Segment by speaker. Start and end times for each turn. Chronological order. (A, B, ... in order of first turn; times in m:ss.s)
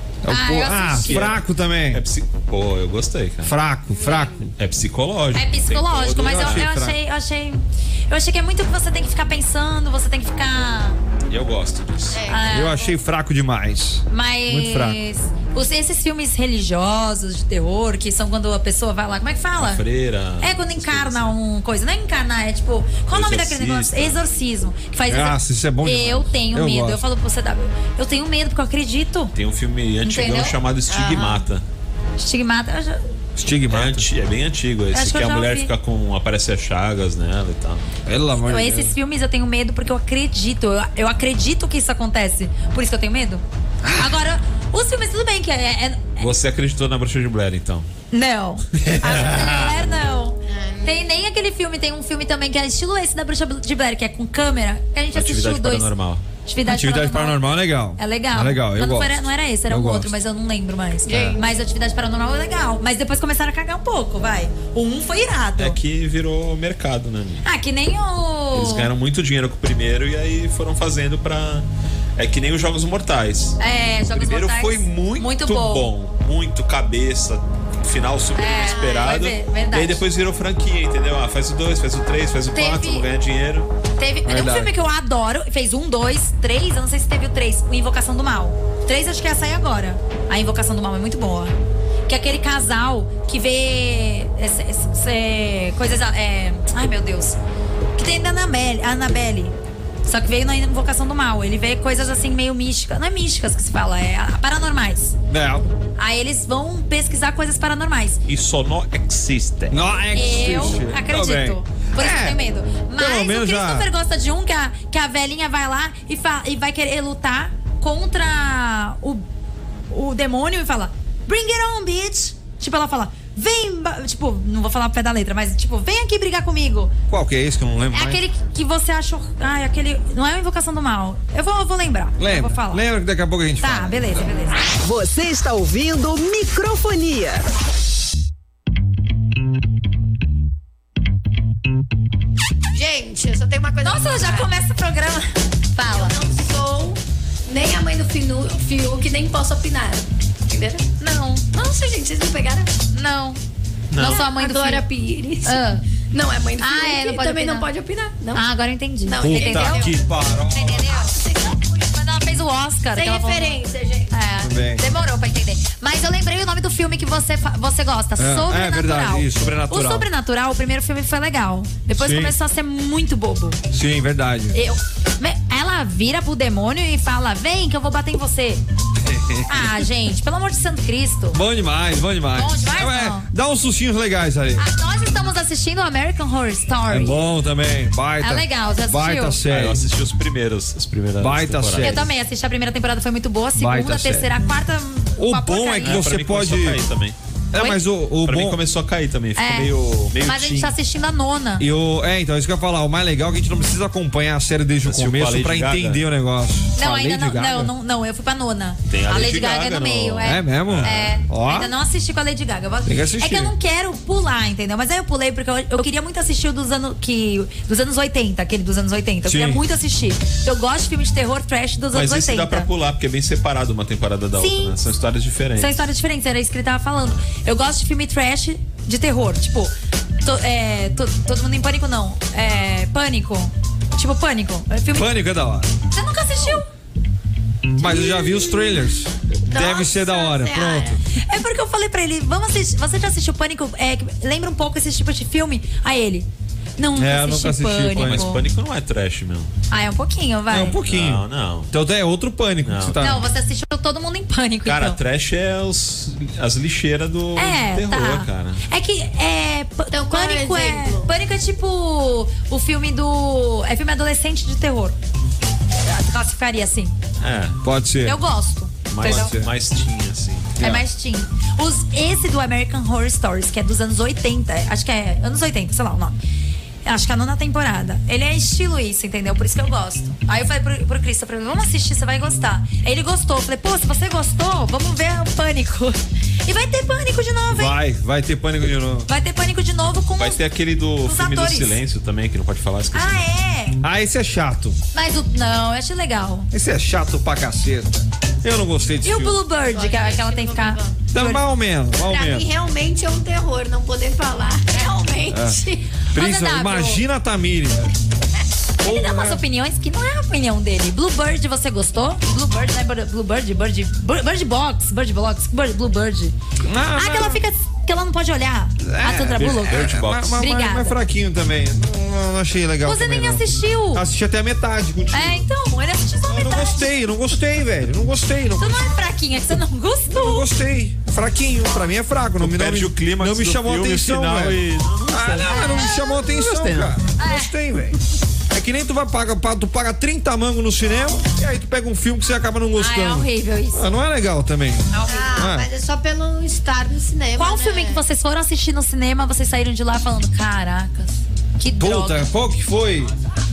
0:00.2-0:02.0 A
0:00.3-0:01.3 B
0:01.0-0:01.4 C
0:01.9-0:03.5 C
0:03.4-0:04.5 A
0:03.9-0:04.5 D
0:04.6-0:06.7 C
0:05.3-0:11.0 B
0:06.1-0:07.0 A
0:11.3-0:12.2 C
0:12.1-0:12.8 D
0:12.3-0:12.9 B
0:12.5-0:15.0 A
0:14.1-0:19.8 B
0:19.6-0:21.3 C
0:20.4-0:29.3 B
0:23.1-0:24.2 C
0:25.1-0:27.0 A
0:29.3-0:31.6 C
0:30.0-0:30.6 B
0:30.9-0:31.4 D
0:32.2-0:33.1 B
0:33.4-0:34.0 A
0:33.7-0:37.9 C
0:34.9-0:35.7 B
0:38.0-0:38.9 A
0:38.4-0:43.4 B
0:43.8-0:44.2 A
0:43.9-0:46.3 B
0:46.2-0:47.9 C
0:48.1-0:55.9 B
0:48.8-0:49.7 A
0:48.9-0:49.6 C
0:50.4-0:51.1 D
0:55.1-0:56.2 C
0:56.4-1:05.8 B
0:56.6-1:00.1 A
1:01.0-1:01.5 D
1:01.1-1:01.4 A
1:05.6-1:07.4 C
1:07.4-1:08.9 B
1:08.5-1:11.6 C
1:12.2-1:13.6 C
1:13.6-1:15.9 B
1:14.1-1:23.7 C
1:18.4-1:20.0 B
1:18.4-1:19.2 D
1:22.5-1:23.0 B
1:24.0-1:31.5 B
1:24.2-1:24.7 A
1:32.1-1:37.4 B
1:37.9-1:45.2 B
1:45.3-1:45.7 A
1:46.0-1:48.2 B
1:48.3-1:49.8 C
1:49.7-1:52.4 A
1:50.1-1:59.2 B
1:53.0-1:53.9 A
1:59.9-2:06.9 B
2:07.1-2:08.2 A
2:07.9-2:12.8 B
2:12.2-2:14.3 A
2:13.6-2:14.6 B
2:14.8-2:17.4 E
2:22.7-2:24.5 D
2:23.8-2:26.2 B
2:25.9-2:30.8 D
2:31.0-2:31.4 B
2:31.5-2:32.7 D
2:32.9-2:33.4 B
2:33.9-2:34.3 C
2:33.9-2:34.8 B
2:34.0-2:38.4 D
2:35.4-2:35.8 B
2:36.6-2:37.7 B
2:38.3-2:40.0 B
2:39.0-2:40.0 D
2:39.2-2:40.9 A
2:40.5-2:41.2 B
2:40.8-2:41.8 D
2:41.9-2:43.6 B
2:42.9-2:44.1 D
2:44.1-2:53.6 B
2:44.4-2:44.8 A
2:48.2-2:50.1 A
2:52.0-2:52.4 A
2:53.7-2:54.6 A
2:54.5-2:58.6 B
2:59.0-2:59.9 A
2:59.5-3:01.4 B
3:01.3-3:04.6 A
3:02.3-3:03.3 B
3:04.6-3:07.2 B
3:06.9-3:09.8 A
3:08.2-3:09.4 B
3:09.4-3:12.0 C
3:11.2-3:12.0 A
3:11.8-3:16.0 B
3:13.6-3:14.3 A
3:15.2-3:16.8 A
3:15.8-3:17.2 C
3:17.5-3:18.6 A
3:17.5-3:17.8 B
3:18.2-3:20.7 C
3:19.4-3:21.7 B
3:21.6-3:27.7 A
3:24.8-3:26.0 C
3:26.8-3:42.7 B
3:28.9-3:31.1 C
3:30.2-3:31.7 A
3:32.8-3:33.5 A
3:39.2-3:39.6 A
3:41.9-3:45.8 C
3:44.4-3:44.9 B
3:45.6-3:55.2 B
3:54.9-3:55.7 A
3:55.9-3:56.7 B
3:57.7-4:01.0 A
3:57.8-3:58.9 D
3:59.5-4:01.0 D
4:01.1-4:08.4 B
4:07.0-4:08.3 A
4:07.9-4:09.5 C
4:09.7-4:10.8 B
4:10.5-4:13.2 A
4:10.8-4:11.7 C
4:12.6-4:13.2 C
4:13.0-4:15.0 B
4:14.6-4:18.6 C
4:17.4-4:25.0 B
4:19.9-4:21.1 D
4:25.8-4:26.9 B
4:27.2-4:27.6 C
4:27.6-4:28.2 A
4:28.0-4:29.3 B
4:28.9-4:30.7 C
4:29.0-4:29.5 A
4:30.6-4:36.2 B
4:36.8-4:47.8 B
4:47.5-4:49.1 A
4:49.1-4:50.4 B
4:50.2-4:53.3 C
4:51.0-4:51.8 B
4:52.9-4:53.8 B
4:53.8-4:54.8 A
4:54.9-4:56.5 B
4:56.5-4:59.4 A
4:59.0-5:01.4 B
4:59.6-5:01.0 D
5:01.1-5:02.5 A
5:02.0-5:05.9 D
5:05.3-5:05.6 A
5:06.1-5:07.9 A
5:06.1-5:07.0 B
5:08.8-5:16.3 B
5:08.8-5:09.4 A
5:16.6-5:17.4 A
5:17.0-5:21.0 B
5:18.8-5:25.5 A
5:19.2-5:20.4 C
5:22.8-5:24.0 B
5:25.1-5:26.9 B
5:26.3-5:28.8 A
5:28.6-5:30.4 B
5:30.1-5:38.0 A
5:32.4-5:35.8 C
5:35.3-5:36.4 B
5:36.3-5:37.0 C
5:37.2-5:37.5 B
5:38.5-5:45.7 A
5:42.8-5:43.9 B
5:44.9-5:45.4 B
5:45.1-5:48.0 D
5:47.4-5:52.2 B
5:51.8-5:53.1 A